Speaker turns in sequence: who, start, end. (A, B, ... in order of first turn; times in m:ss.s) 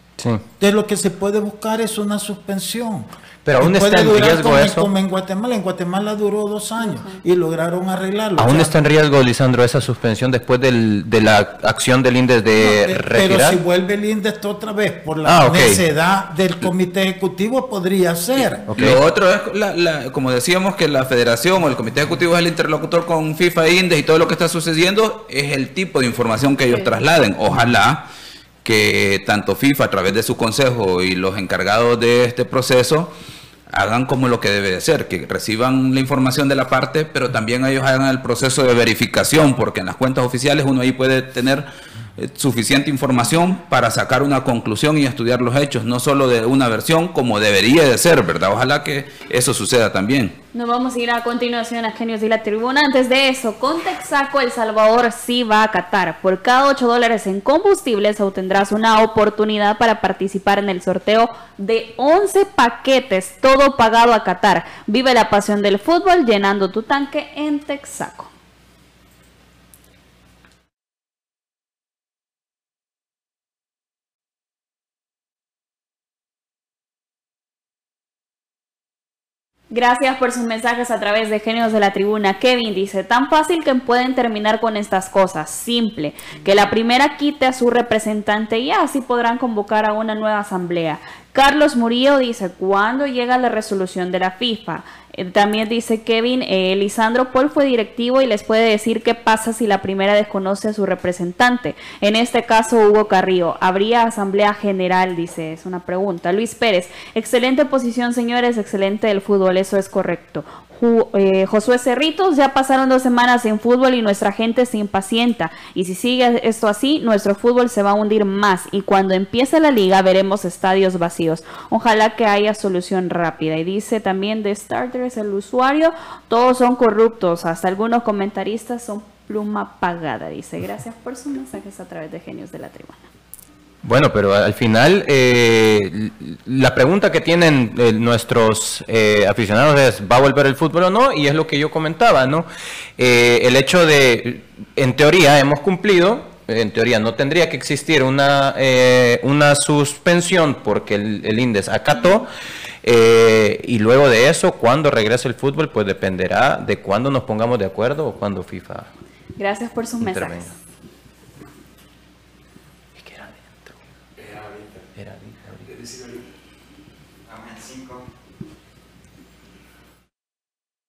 0:00.2-0:00.4 A
0:00.6-0:08.8 B
0:03.4-0:04.9 A
0:06.8-0:07.2 C
0:08.4-0:13.6 A
0:12.6-0:18.6 B
0:15.3-0:15.8 A
0:18.7-0:19.0 A
0:18.7-0:28.0 D
0:28.6-0:33.1 D
0:33.7-0:41.7 D
0:42.2-0:50.4 D
0:50.5-1:08.3 C
1:19.7-2:13.1 C
2:13.8-2:32.3 A
2:32.8-2:38.9 A
2:39.4-2:40.5 C
2:40.0-2:40.5 A
2:43.0-2:43.8 A
2:44.9-2:46.2 A